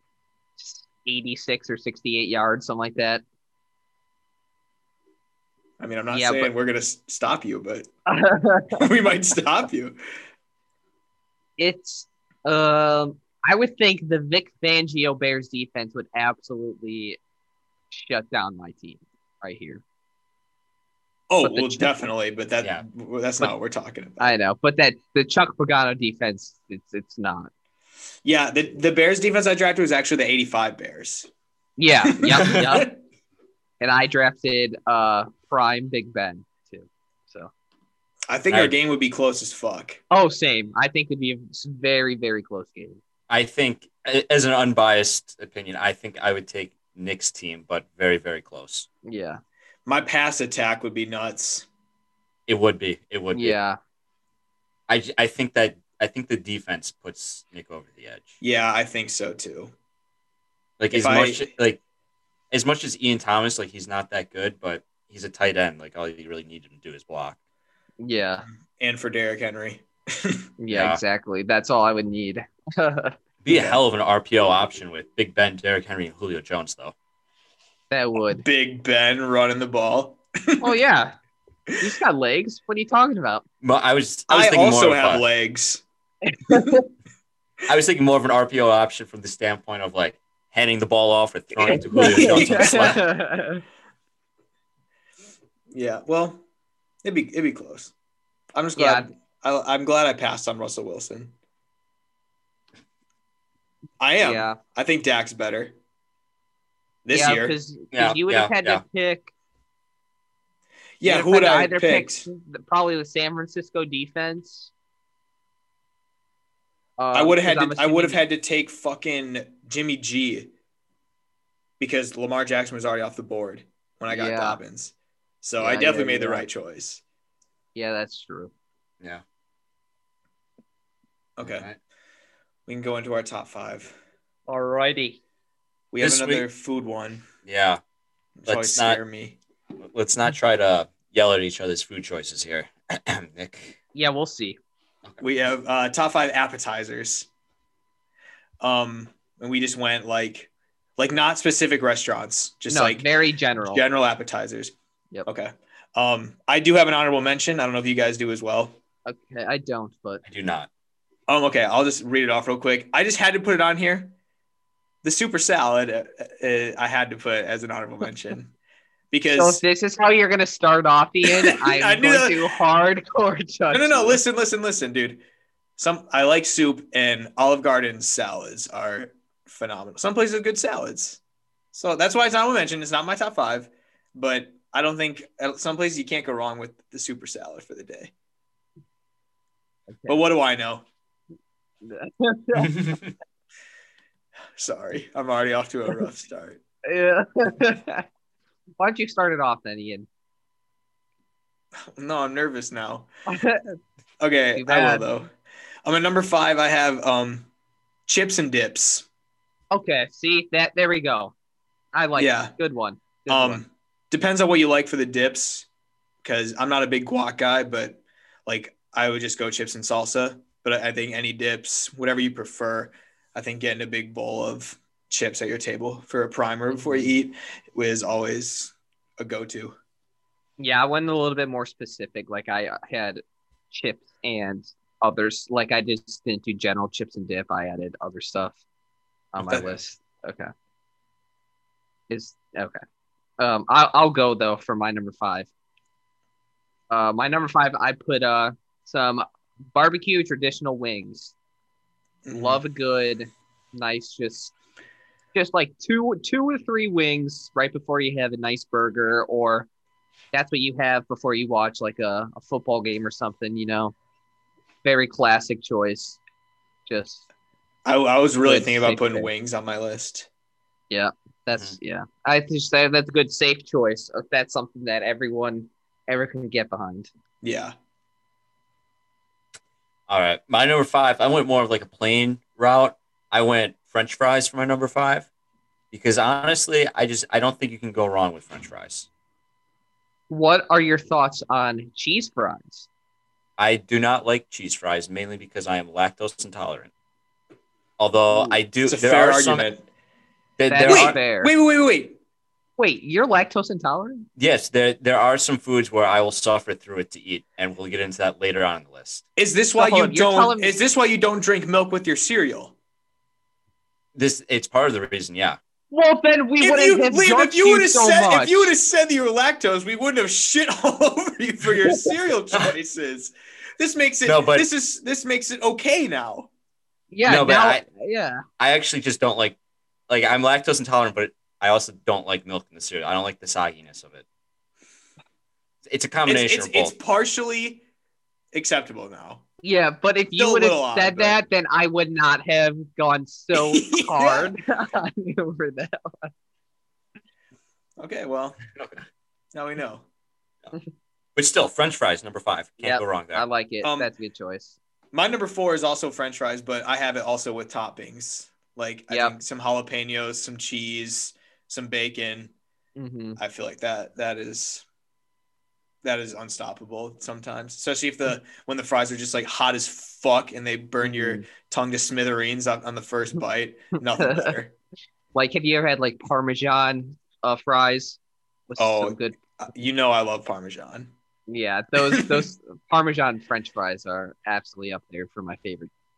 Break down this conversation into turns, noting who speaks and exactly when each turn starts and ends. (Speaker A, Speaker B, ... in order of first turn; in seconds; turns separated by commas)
Speaker A: 0.6-3.2, Speaker B: 5.8-7.9, Speaker A: 6.1-6.5, Speaker A: 8.1-8.8, Speaker B: 8.8-10.0, Speaker A: 11.6-17.2, Speaker A: 17.9-19.8, Speaker B: 21.3-24.3, Speaker A: 21.4-22.1, Speaker A: 24.2-27.5, Speaker B: 28.2-31.3, Speaker A: 31.8-32.9, Speaker B: 32.2-33.0, Speaker A: 33.8-37.5, Speaker B: 38.3-40.0, Speaker C: 38.5-38.7, Speaker A: 40.1-43.0, Speaker C: 43.3-48.9, Speaker A: 49.0-49.4, Speaker B: 49.9-51.7, Speaker C: 52.5-53.6, Speaker A: 53.3-53.8, Speaker C: 54.9-58.4, Speaker B: 58.4-59.7, Speaker C: 60.8-61.8, Speaker B: 60.9-61.5, Speaker C: 62.5-67.4, Speaker A: 68.0-68.5, Speaker B: 68.8-70.5, Speaker A: 70.6-73.2, Speaker C: 70.7-71.0, Speaker C: 73.4-76.9, Speaker B: 73.5-73.8, Speaker A: 77.9-78.5, Speaker B: 78.3-80.8, Speaker A: 80.6-81.2, Speaker A: 81.8-83.5, Speaker C: 83.6-85.2, Speaker B: 84.3-85.8, Speaker A: 86.3-86.9, Speaker C: 87.7-93.0, Speaker A: 91.7-93.6, Speaker B: 91.9-93.0, Speaker B: 95.7-96.4, Speaker B: 97.0-97.9, Speaker B: 98.5-101.3, Speaker A: 98.8-99.1, Speaker B: 104.0-105.8, Speaker A: 104.2-104.6, Speaker B: 107.0-107.5, Speaker A: 107.1-109.3, Speaker C: 107.9-108.8, Speaker B: 111.0-112.3, Speaker A: 111.0-114.7, Speaker A: 117.0-118.2, Speaker B: 117.1-120.5, Speaker B: 121.8-127.0, Speaker A: 124.1-124.6, Speaker A: 125.6-126.5, Speaker A: 127.8-128.5, Speaker B: 131.4-131.7, Speaker C: 131.4-131.8, Speaker B: 132.7-134.0, Speaker A: 134.5-135.2, Speaker B: 135.9-137.3, Speaker C: 136.0-136.5, Speaker C: 137.4-137.8, Speaker B: 138.4-139.4, Speaker C: 138.5-139.0, Speaker C: 139.8-143.8, Speaker A: 143.9-144.6, Speaker B: 145.2-147.3, Speaker B: 148.6-153.1, Speaker A: 152.7-153.8, Speaker B: 153.6-154.7, Speaker B: 155.2-158.8, Speaker A: 159.1-160.2, Speaker C: 160.2-160.7, Speaker B: 161.3-164.1, Speaker B: 165.0-168.5, Speaker B: 169.1-169.6, Speaker A: 169.3-174.2, Speaker B: 171.2-172.5, Speaker B: 173.7-175.2, Speaker B: 175.8-181.2, Speaker B: 181.7-188.1, Speaker A: 189.9-190.2, Speaker B: 190.1-190.8, Speaker A: 191.8-192.7, Speaker C: 192.6-193.1, Speaker B: 194.6-196.6, Speaker A: 196.9-198.1, Speaker A: 198.8-200.1, Speaker B: 201.9-203.1, Speaker A: 203.3-203.8, Speaker B: 204.2-205.3, Speaker A: 204.6-205.1, Speaker B: 205.8-207.5, Speaker B: 208.1-209.1, Speaker A: 209.7-211.3, Speaker A: 211.9-213.6, Speaker B: 212.2-212.5, Speaker B: 213.3-215.7, Speaker B: 216.2-229.8, Speaker A: 226.7-227.1, Speaker A: 230.6-238.6, Speaker A: 239.3-240.5, Speaker B: 239.4-239.8, Speaker A: 242.1-242.8, Speaker A: 243.4-245.5, Speaker A: 246.9-251.3, Speaker B: 252.2-252.6, Speaker A: 252.3-254.5, Speaker A: 255.3-259.7, Speaker A: 260.3-263.9, Speaker A: 264.8-266.2, Speaker A: 266.9-267.2, Speaker B: 267.9-270.3, Speaker A: 268.4-269.3, Speaker A: 270.9-277.1, Speaker B: 277.4-277.7, Speaker C: 280.1-285.3, Speaker C: 285.9-289.1, Speaker A: 290.3-292.9, Speaker C: 293.6-296.9, Speaker C: 298.0-299.7, Speaker B: 298.9-299.9, Speaker C: 300.6-301.2, Speaker A: 300.7-301.5, Speaker B: 300.9-302.2, Speaker A: 302.8-304.3, Speaker C: 304.4-309.2, Speaker B: 309.4-312.8, Speaker A: 309.8-310.8, Speaker C: 314.1-315.6, Speaker A: 315.9-318.7, Speaker B: 316.6-326.5, Speaker C: 324.2-324.7, Speaker A: 327.1-328.4, Speaker C: 327.2-327.9, Speaker C: 328.6-329.6, Speaker C: 330.1-334.2, Speaker C: 335.9-336.9, Speaker B: 336.3-337.8, Speaker B: 338.5-339.4, Speaker A: 339.6-346.3, Speaker B: 340.4-341.4, Speaker B: 343.5-344.5, Speaker B: 348.0-348.6, Speaker C: 348.7-349.0, Speaker B: 349.5-350.1, Speaker C: 351.4-353.4, Speaker A: 352.8-354.8, Speaker B: 353.8-354.1, Speaker B: 355.1-362.5, Speaker A: 359.1-359.4, Speaker A: 363.0-363.4, Speaker B: 363.4-364.9, Speaker B: 366.0-374.7, Speaker A: 371.0-371.4, Speaker A: 374.1-374.5, Speaker A: 375.4-379.4, Speaker B: 378.8-381.1, Speaker A: 381.5-385.9, Speaker B: 382.1-382.5